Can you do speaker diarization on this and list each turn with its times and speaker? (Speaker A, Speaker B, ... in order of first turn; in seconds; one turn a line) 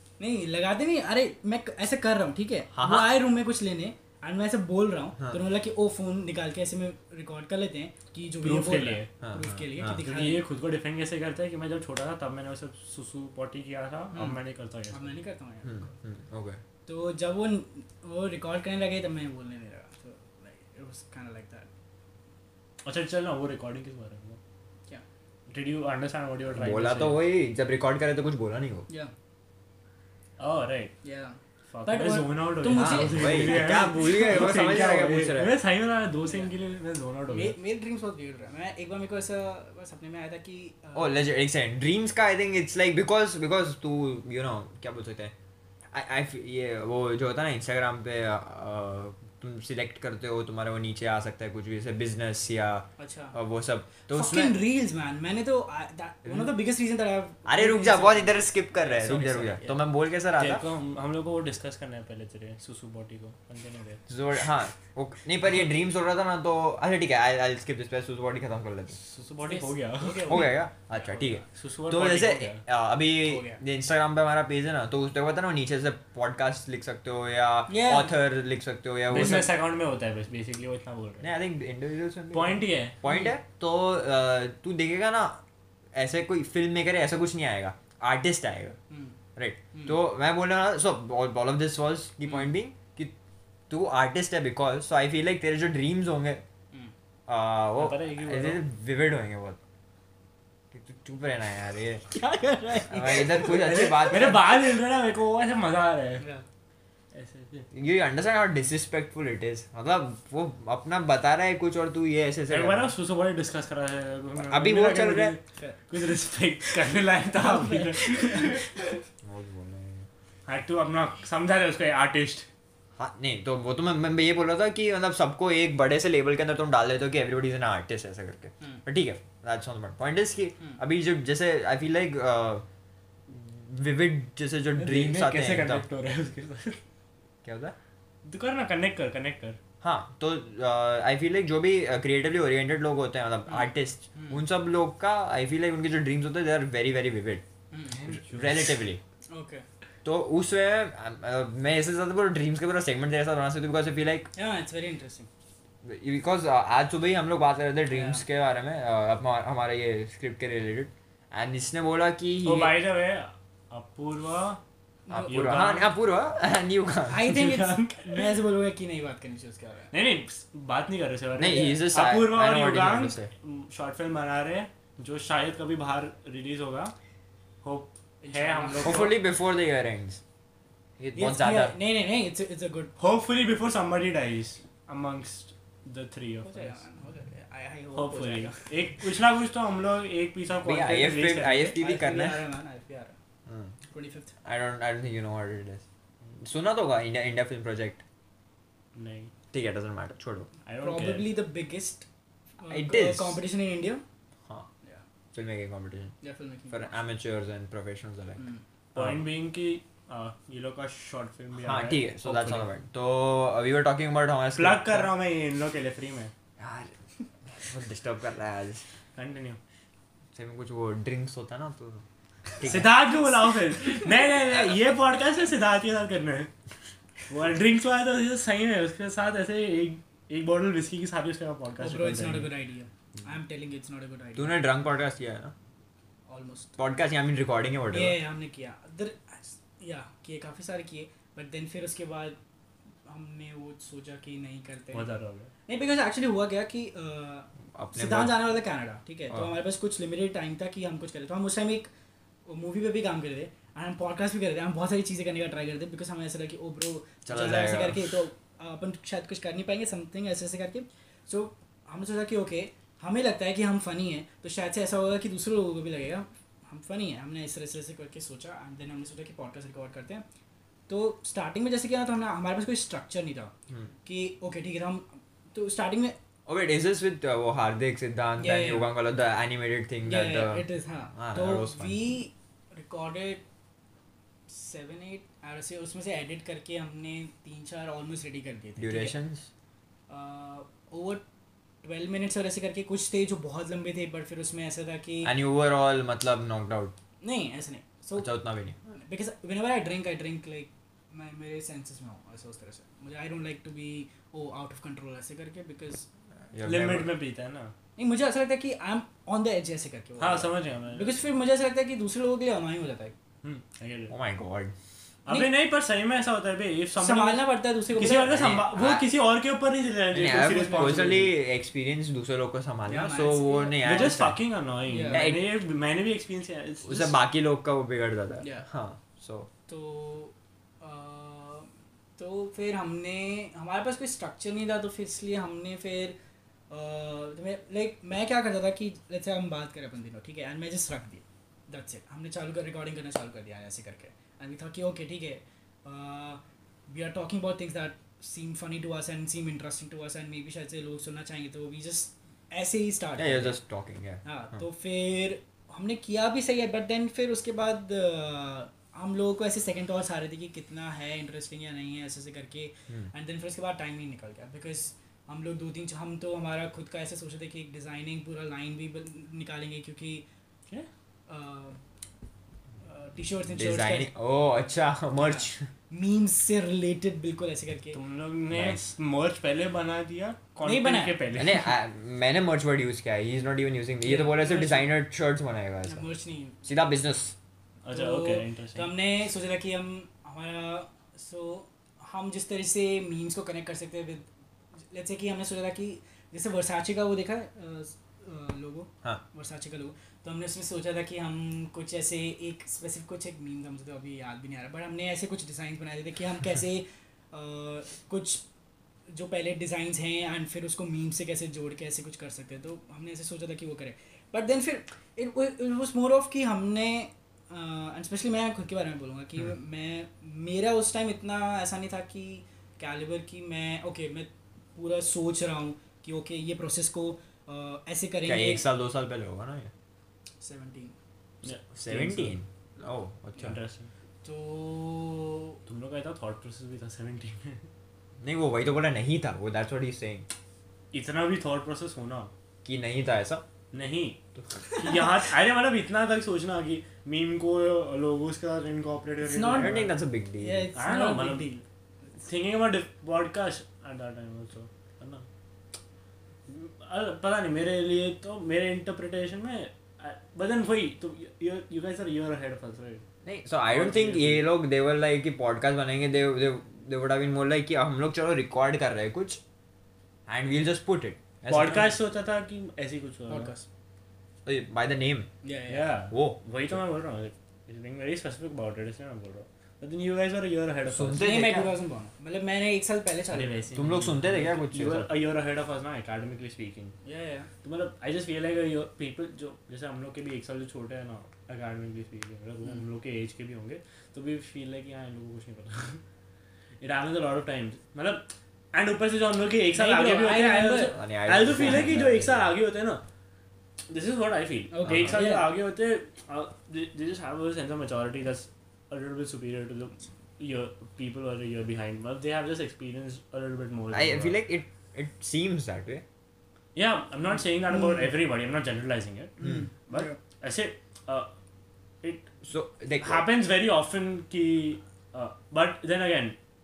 Speaker A: 0.2-10.4
Speaker B: 2.7-3.1
Speaker C: 8.4-9.1
Speaker B: 9.2-10.0
Speaker C: 9.9-15.1
Speaker A: 14.1-15.9
Speaker B: 15.6-16.6
Speaker A: 16.9-21.7
Speaker C: 22.8-24.4
Speaker C: 25.5-27.2
Speaker B: 26.5-28.9
Speaker C: 30.4-30.9
Speaker A: 31.0-34.0
Speaker C: 31.7-37.5
Speaker B: 32.7-35.6
Speaker A: 36.2-36.5
Speaker A: 37.3-41.2
Speaker B: 40.9-45.3
Speaker B: 45.9-54.5
Speaker A: 53.0-53.4
Speaker A: 54.1-59.8
Speaker B: 56.2-56.5
Speaker B: 57.5-60.6
Speaker C: 60.4-64.0
Speaker B: 64.1-69.0
Speaker C: 69.0-70.5
Speaker A: 69.4-71.4
Speaker B: 70.3-79.5
Speaker C: 71.5-72.6
Speaker A: 73.2-73.6
Speaker A: 77.7-78.1
Speaker C: 79.1-81.3
Speaker B: 81.2-85.4
Speaker C: 82.3-83.0
Speaker A: 83.0-83.3
Speaker B: 85.9-88.8
Speaker A: 88.9-89.2
Speaker B: 89.3-93.1
Speaker A: 89.7-90.0
Speaker B: 93.7-96.4
Speaker B: 97.3-99.6
Speaker C: 97.8-98.6
Speaker B: 100.7-102.0
Speaker A: 102.1-104.1
Speaker B: 102.9-104.5
Speaker C: 103.5-106.2
Speaker C: 107.1-107.7
Speaker B: 107.7-112.9
Speaker C: 112.5-118.9
Speaker B: 114.4-115.3
Speaker A: 115.5-115.8
Speaker A: 117.3-119.0
Speaker B: 119.2-120.1
Speaker C: 120.5-122.5
Speaker B: 123.0-132.6
Speaker B: 133.3-135.8
Speaker C: 134.8-136.8
Speaker B: 137.4-137.7
Speaker C: 138.2-139.6
Speaker B: 139.8-147.4
Speaker A: 143.5-144.4
Speaker A: 147.7-148.0
Speaker C: 147.9-148.8
Speaker B: 148.1-149.0
Speaker A: 149.3-149.7
Speaker B: 150.0-154.3
Speaker A: 154.3-155.3
Speaker B: 155.8-162.8
Speaker A: 157.9-158.2
Speaker C: 162.4-164.6
Speaker A: 165.1-165.5
Speaker B: 165.1-167.3
Speaker C: 165.3-165.9
Speaker A: 167.1-169.9
Speaker C: 167.3-168.3
Speaker C: 169.9-176.9
Speaker B: 171.4-173.3
Speaker C: 177.6-179.1
Speaker A: 178.2-179.1
Speaker B: 178.8-180.2
Speaker B: 181.0-181.7
Speaker A: 181.1-182.9
Speaker C: 183.0-186.8
Speaker A: 186.4-188.9
Speaker C: 187.9-191.7
Speaker B: 190.6-192.4
Speaker A: 191.8-193.2
Speaker B: 193.5-193.7
Speaker A: 193.9-194.3
Speaker B: 194.4-195.8
Speaker B: 196.3-198.0
Speaker C: 198.9-199.3
Speaker B: 199.5-200.5
Speaker C: 200.7-201.3
Speaker A: 200.8-202.1
Speaker A: 202.6-204.0
Speaker B: 202.7-203.4
Speaker B: 205.3-206.1
Speaker A: 206.2-206.9
Speaker B: 206.7-208.4
Speaker A: 208.4-208.6
Speaker B: 208.9-209.2
Speaker C: 208.9-212.7
Speaker B: 211.6-215.1
Speaker C: 214.6-216.3
Speaker B: 216.6-216.9
Speaker B: 217.5-218.8
Speaker C: 219.2-219.6
Speaker B: 220.3-222.0
Speaker B: 222.6-222.9
Speaker C: 222.6-226.5
Speaker C: 227.3-232.5
Speaker A: 231.8-234.6
Speaker B: 234.3-235.5
Speaker A: 236.3-236.8
Speaker B: 236.8-238.2
Speaker A: 237.9-242.4
Speaker A: 243.1-245.1
Speaker C: 244.9-245.5
Speaker A: 245.7-251.9
Speaker B: 247.7-248.3
Speaker A: 252.5-270.2
Speaker B: 257.2-258.1
Speaker A: 270.9-273.5
Speaker A: 274.0-276.1
Speaker B: 276.4-280.6
Speaker A: 278.4-278.9
Speaker A: 280.0-283.4
Speaker B: 281.1-282.0
Speaker A: 284.5-289.1
Speaker B: 288.8-289.5
Speaker A: 290.1-291.2
Speaker A: 291.8-295.3
Speaker B: 295.2-296.9
Speaker A: 297.2-298.3
Speaker B: 298.2-298.8
Speaker A: 298.9-306.1
Speaker B: 306.5-307.1
Speaker C: 306.6-307.7
Speaker A: 308.0-313.1
Speaker C: 310.2-311.1
Speaker C: 313.4-314.1
Speaker B: 314.1-314.7
Speaker C: 315.2-321.3
Speaker A: 317.0-318.4
Speaker B: 318.3-319.1
Speaker B: 320.1-324.4
Speaker A: 322.9-324.2
Speaker C: 323.8-327.1
Speaker A: 324.9-325.3
Speaker B: 325.1-325.4
Speaker B: 326.8-329.5
Speaker A: 328.4-328.7
Speaker A: 329.7-336.1
Speaker A: 336.7-353.6
Speaker B: 353.1-354.6
Speaker A: 354.2-370.2
Speaker A: 371.3-371.8
Speaker A: 372.8-374.1
Speaker B: 373.6-375.7
Speaker A: 375.2-378.0
Speaker C: 377.9-381.7
Speaker B: 378.5-378.8
Speaker A: 380.6-381.2
Speaker B: 381.3-386.0
Speaker A: 384.0-384.9
Speaker A: 385.8-386.6
Speaker B: 386.6-387.3
Speaker C: 387.8-388.9
Speaker A: 387.9-394.3
Speaker A: 394.9-408.4
Speaker A: 409.1-428.6
Speaker B: 428.2-429.7
Speaker A: 430.4-430.9
Speaker C: 431.4-432.4
Speaker B: 431.4-433.6
Speaker C: 433.4-433.9
Speaker A: 434.2-435.6
Speaker C: 435.7-437.6
Speaker B: 438.2-440.2
Speaker C: 440.9-442.3
Speaker B: 442.6-443.4
Speaker C: 443.7-449.9
Speaker A: 444.7-445.0
Speaker A: 449.2-449.8
Speaker B: 449.5-450.7
Speaker A: 450.4-451.6
Speaker C: 450.8-451.5
Speaker C: 452.2-455.3
Speaker C: 456.5-463.0
Speaker B: 463.2-469.4
Speaker C: 463.7-464.4
Speaker B: 470.3-471.9
Speaker C: 471.5-473.5
Speaker A: 473.3-473.6
Speaker B: 474.4-475.3
Speaker A: 475.4-475.9
Speaker C: 475.7-481.3
Speaker B: 476.1-476.4
Speaker B: 480.9-481.7
Speaker A: 481.2-483.6
Speaker C: 483.3-487.0
Speaker B: 483.7-485.1
Speaker A: 487.0-487.5
Speaker C: 487.6-496.0
Speaker C: 496.8-503.0
Speaker A: 499.7-500.9
Speaker B: 500.9-502.5
Speaker C: 503.9-514.4
Speaker A: 504.7-505.5
Speaker B: 504.9-505.2
Speaker B: 513.9-516.0
Speaker C: 516.7-521.3
Speaker A: 517.8-518.0
Speaker A: 519.4-520.2
Speaker C: 522.0-522.3
Speaker B: 522.4-523.2
Speaker C: 523.0-526.4